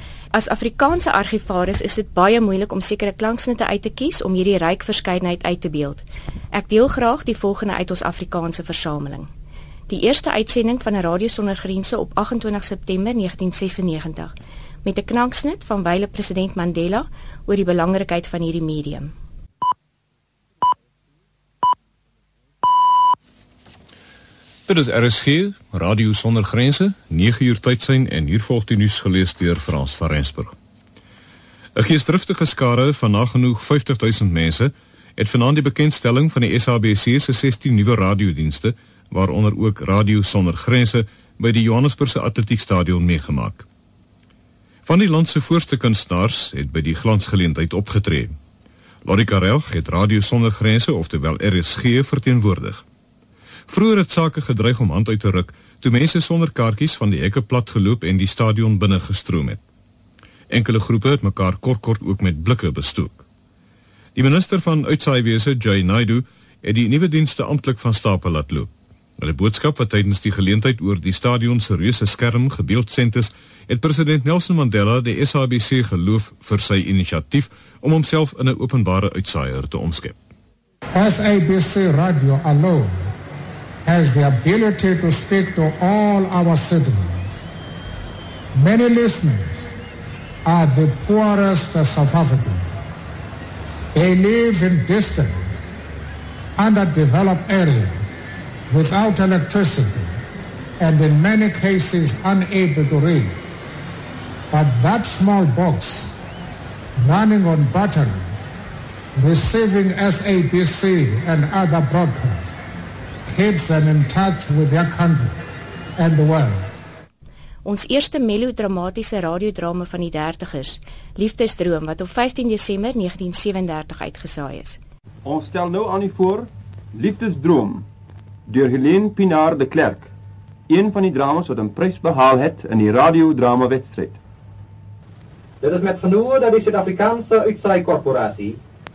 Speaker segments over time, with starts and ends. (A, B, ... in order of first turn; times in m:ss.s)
0:00.3-0:09.3 A
0:09.9-0:14.3 A
0:14.8-0:19.1 A
0:24.7-0:30.6 B
0:31.8-0:43.7 B
0:44.8-0:48.4 B
0:49.0-0:52.8 B
0:53.7-0:59.6 B
1:00.5-1:03.2 B
1:04.2-1:20.2 B
1:21.0-1:23.1 C
1:23.8-1:27.2 C
1:28.6-1:29.7 C
1:30.4-1:32.6 C
1:34.0-1:35.6 C
1:36.6-1:38.0 C
1:38.7-1:40.1 C
1:40.8-1:43.3 C
1:44.5-1:46.1 C
1:47.0-1:48.2 C
1:49.2-1:52.5 C
1:53.3-1:55.3 C
1:56.0-1:56.7 C
1:57.6-2:04.8 A
2:05.2-2:07.9 D
2:08.5-2:10.1 D
2:10.7-2:14.2 D
2:15.6-2:18.6 E